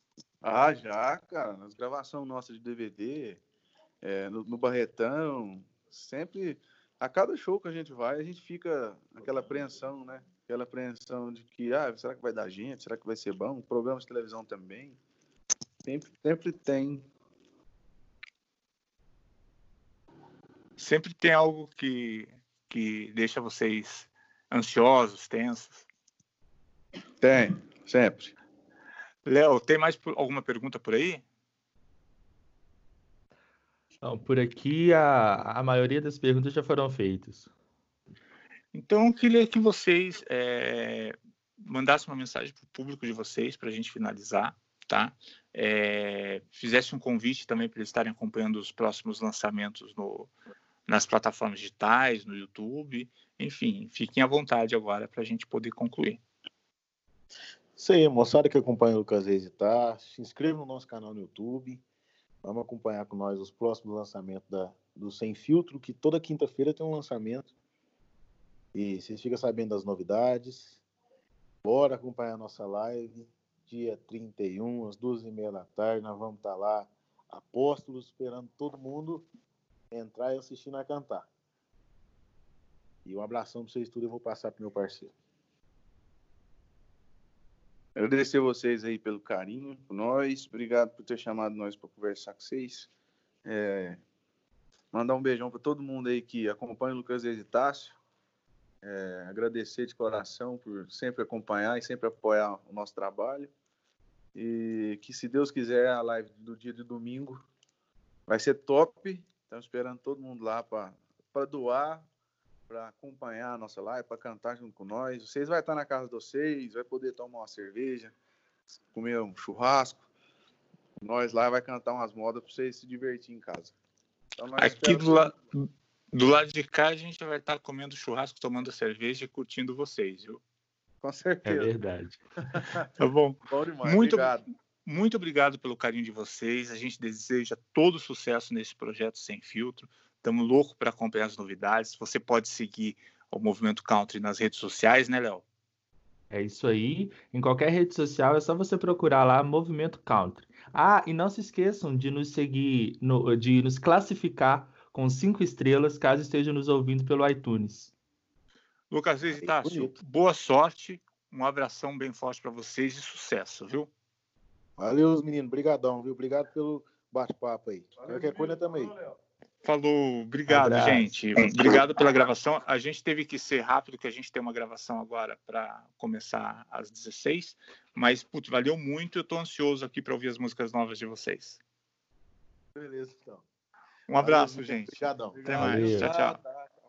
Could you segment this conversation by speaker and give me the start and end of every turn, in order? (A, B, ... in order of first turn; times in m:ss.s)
0:00.4-0:03.4 A
0:04.0-0:15.0 A
0:15.8-0:17.1 A
0:20.8-0:25.9 B
0:27.2-0:28.3 A
0:29.2-0:31.2 B
0:34.0-0:37.5 C
0:38.7-0:50.3 B
0:50.9-0:56.2 B
0:57.8-1:01.8 D
1:02.4-1:07.5 D
1:08.7-1:10.8 D
1:11.6-1:19.3 D
1:19.9-1:21.3 D
1:23.0-1:25.1 D
1:28.0-1:32.9 A
1:33.4-1:34.0 A
1:34.9-1:38.0 A
1:38.8-1:43.5 A
1:44.4-1:47.5 A
1:48.3-1:52.1 A
1:52.7-1:58.2 A
1:58.9-2:00.0 A
2:01.0-2:03.8 A
2:04.4-2:05.3 A
2:04.6-2:10.4 B
2:11.0-2:11.8 A
2:11.4-2:12.6 C
2:12.5-2:12.8 A
2:13.0-2:14.3 B
2:13.5-2:14.4 A
2:14.8-2:25.4 B
2:26.3-2:37.9 C
2:38.9-2:43.9 B
2:39.4-2:40.0 D
2:44.8-2:48.9 D
2:48.0-2:49.2 A
2:49.6-3:01.6 B
2:50.5-2:51.2 C
3:02.8-3:03.4 D
3:04.1-3:06.4 B
3:04.2-3:05.8 D
3:05.3-3:06.7 A
3:05.5-3:06.1 C